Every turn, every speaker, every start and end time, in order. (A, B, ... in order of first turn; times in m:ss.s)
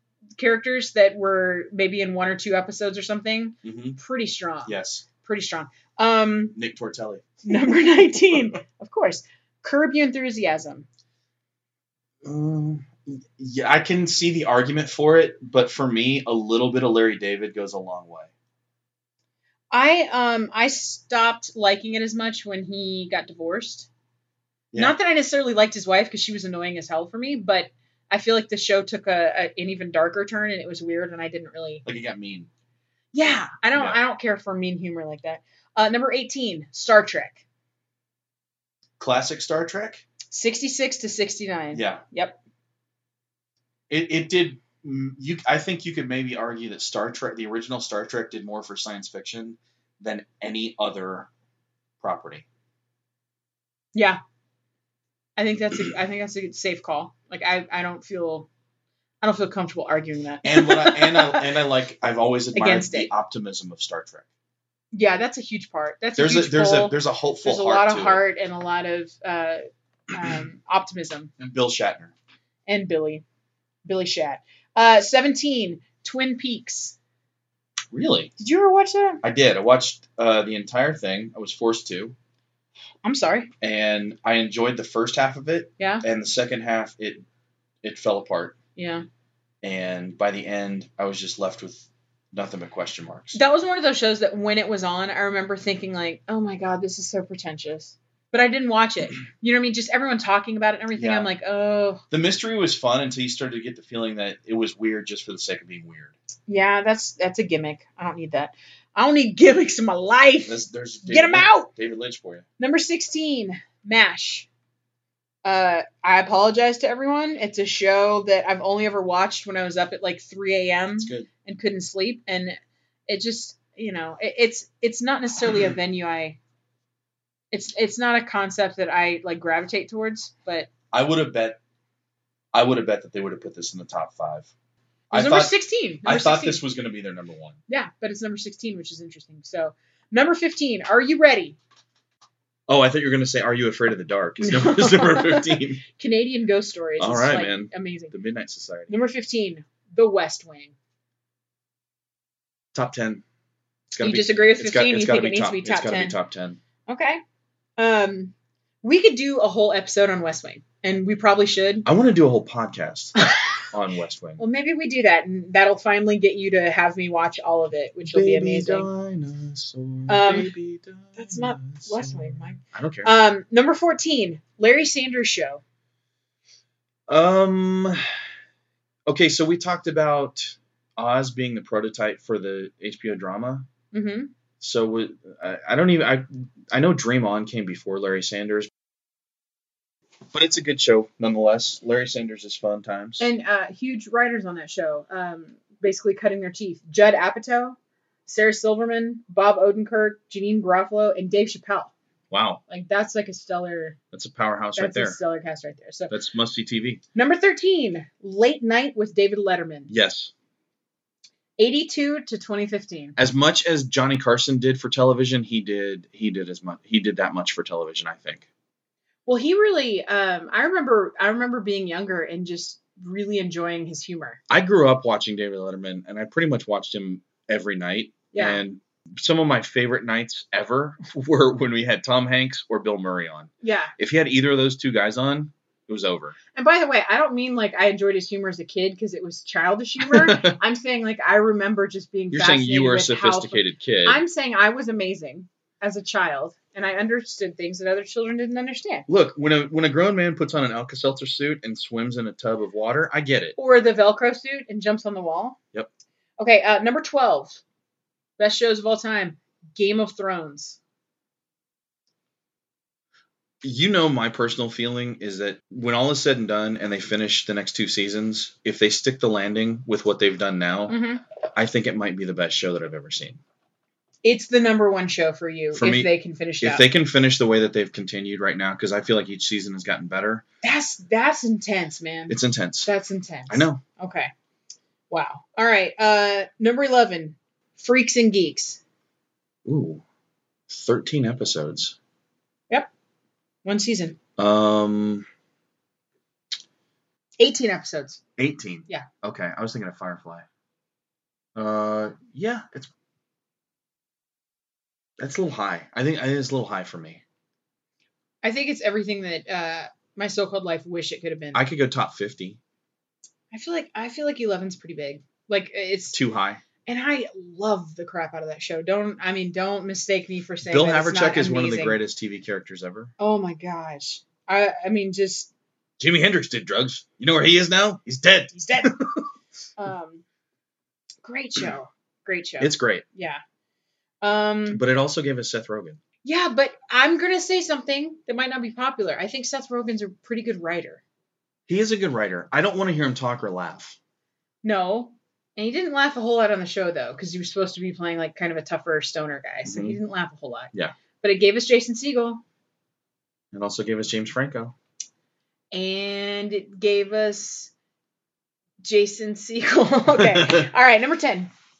0:00.4-0:06.5 A
0:03.6-0:04.0 B
0:04.6-0:05.0 B
0:06.5-0:07.4 B
0:07.4-0:10.9 A
0:12.2-0:18.3 B
0:19.7-0:23.9 A
0:24.8-0:31.8 A
0:31.8-0:32.5 B
0:33.1-0:37.4 A
0:39.0-0:40.0 B
0:40.3-0:42.4 A
0:41.7-0:42.0 B
0:43.9-0:51.3 B
0:52.0-0:52.4 B
0:53.9-0:54.2 A
0:55.4-0:58.5 A
0:59.2-1:01.4 A
1:00.4-1:04.2 B
1:02.5-1:03.1 A
1:04.9-1:11.3 A
1:06.2-1:08.2 B
1:11.4-1:12.1 B
1:12.7-1:13.2 A
1:13.8-1:17.0 A
1:17.9-1:18.3 B
1:18.4-1:19.2 A
1:19.2-1:22.2 B
1:23.0-1:23.5 A
1:23.6-1:27.2 B
1:25.8-1:26.0 A
1:27.8-1:28.6 B
1:28.8-1:29.0 A
1:29.6-1:33.4 B
1:33.3-1:42.0 A
1:41.0-1:41.3 B
1:42.1-1:46.1 B
1:46.5-1:51.7 A
1:50.4-1:52.4 B
1:52.6-1:54.5 A
1:55.4-2:06.4 A
2:01.0-2:01.3 B
2:07.5-2:10.7 A
2:10.9-2:11.6 B
2:12.5-2:14.5 B
2:15.1-2:17.6 B
2:15.1-2:16.6 A
2:17.7-2:21.6 A
2:22.7-2:25.8 B
2:24.4-2:28.1 A
2:27.0-2:28.9 B
2:28.9-2:30.7 A
2:32.7-2:33.2 B
2:33.9-2:36.6 B
2:34.0-2:36.2 A
2:36.9-2:37.2 A
2:37.8-2:41.8 A
2:41.8-2:44.4 B
2:44.4-2:48.9 A
2:48.0-2:53.1 B
2:50.1-2:50.5 A
2:51.2-2:55.6 A
2:57.1-2:58.2 B
2:59.1-3:03.7 B
3:03.9-3:04.3 A
3:04.6-3:08.7 B
3:10.3-3:13.3 B
3:13.2-3:21.9 A
3:22.3-3:22.6 B
3:22.7-3:24.0 A
3:24.1-3:25.2 B
3:24.8-3:26.1 A
3:26.1-3:27.0 B
3:27.1-3:29.9 A
3:29.9-3:30.3 B
3:31.6-3:33.2 A
3:33.2-3:38.4 B
3:39.2-3:44.4 A
3:44.5-3:56.4 B
3:48.3-3:48.6 A
3:53.6-3:53.9 A
3:56.5-4:09.1 A
4:00.0-4:00.6 B
4:02.3-4:04.2 B
4:09.1-4:13.6 B
4:13.6-4:15.6 A
4:16.4-4:17.6 A
4:18.4-4:20.8 A
4:23.6-4:31.0 B
4:30.9-4:31.2 A
4:31.5-4:33.4 B
4:34.2-4:36.8 A
4:35.7-4:40.4 B
4:40.6-4:44.3 A
4:42.3-4:42.9 B
4:43.5-4:43.8 B
4:45.1-4:48.8 A
4:49.6-4:50.0 B
4:50.7-4:52.0 B
4:53.6-4:54.2 A
4:54.4-4:55.3 B
4:57.4-4:58.2 A
4:58.4-5:00.4 B
5:01.5-5:02.9 B
5:05.2-5:07.2 B
5:08.4-5:11.6 A
5:11.5-5:12.6 B
5:13.5-5:16.2 A
5:16.1-5:16.6 B
5:16.8-5:22.0 A
5:20.6-5:23.1 B
5:23.2-5:25.5 A
5:26.0-5:29.2 B
5:28.5-5:28.9 A
5:29.8-5:30.2 A
5:31.2-5:33.4 A
5:32.6-5:33.0 B
5:34.2-5:34.8 A
5:34.7-5:36.0 B
5:36.2-5:41.0 A
5:41.7-5:44.0 B
5:44.6-5:52.4 A
5:49.6-5:50.0 B
5:53.5-5:54.7 B
5:55.7-5:57.7 A
5:58.8-6:01.5 A
6:00.1-6:00.7 B